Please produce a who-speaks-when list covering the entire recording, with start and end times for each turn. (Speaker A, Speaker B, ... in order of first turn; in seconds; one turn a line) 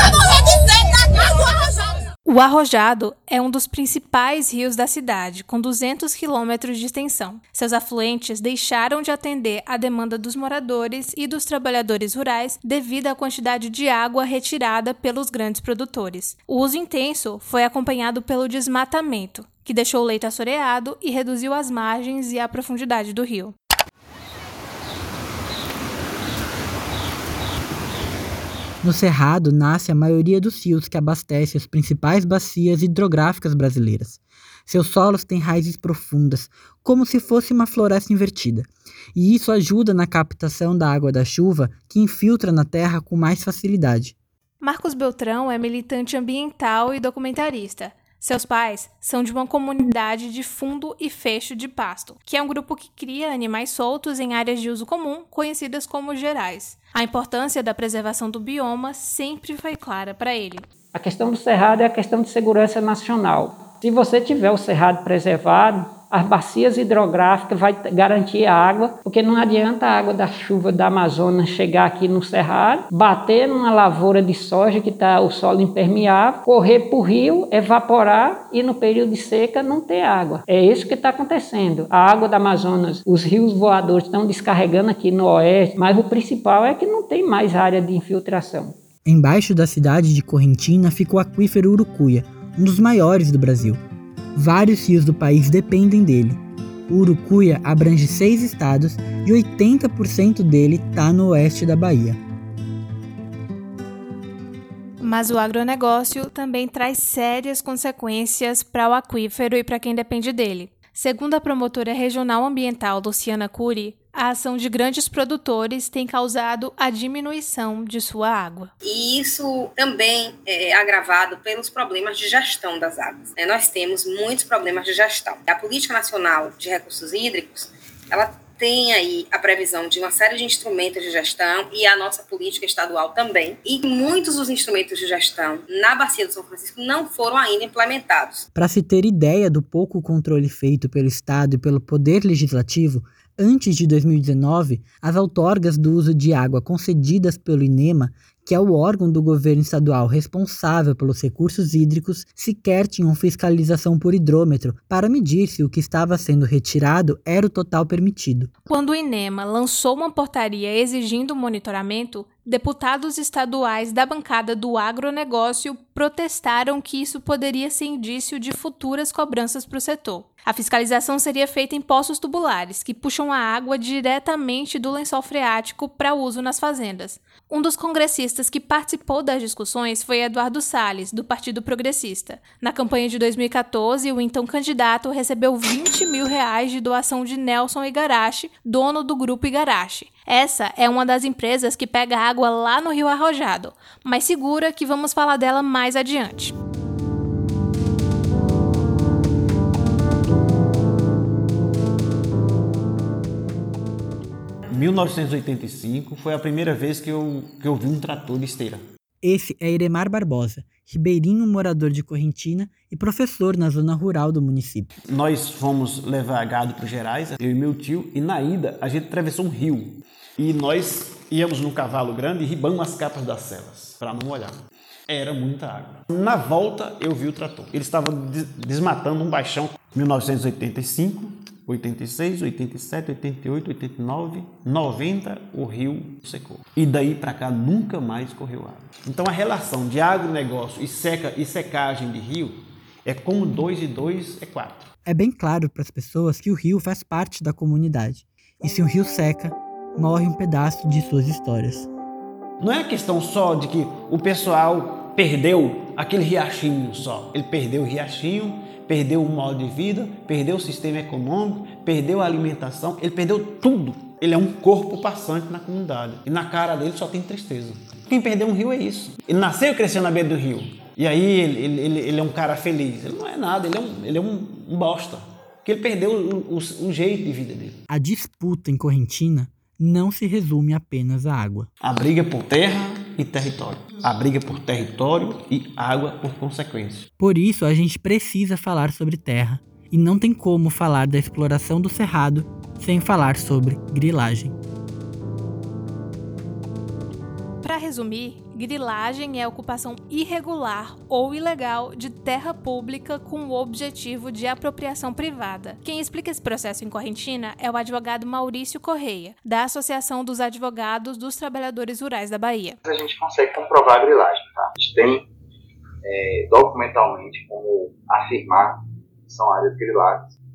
Speaker A: 2.2-23.5
Speaker B: 28.8-44.1
Speaker A: 44.6-60.6
Speaker C: 60.9-88.8
Speaker B: 89.0-93.8
Speaker B: 94.3-102.2
Speaker A: 105.0-118.7
Speaker D: 118.8-138.5
Speaker B: 138.5-158.5
Speaker A: 158.7-196.5
Speaker E: 204.7-208.8
Speaker B: 209.2-214.9
Speaker E: 215.1-224.6
Speaker E: 225.1-244.9
Speaker B: 245.1-251.9
Speaker E: 252.6-277.8
Speaker B: 277.9-281.7
Speaker E: 281.8-287.1
Speaker B: 287.2-294.5
Speaker A: 297.6-312.8
Speaker F: 312.8-315.3
Speaker F: 316.0-320.3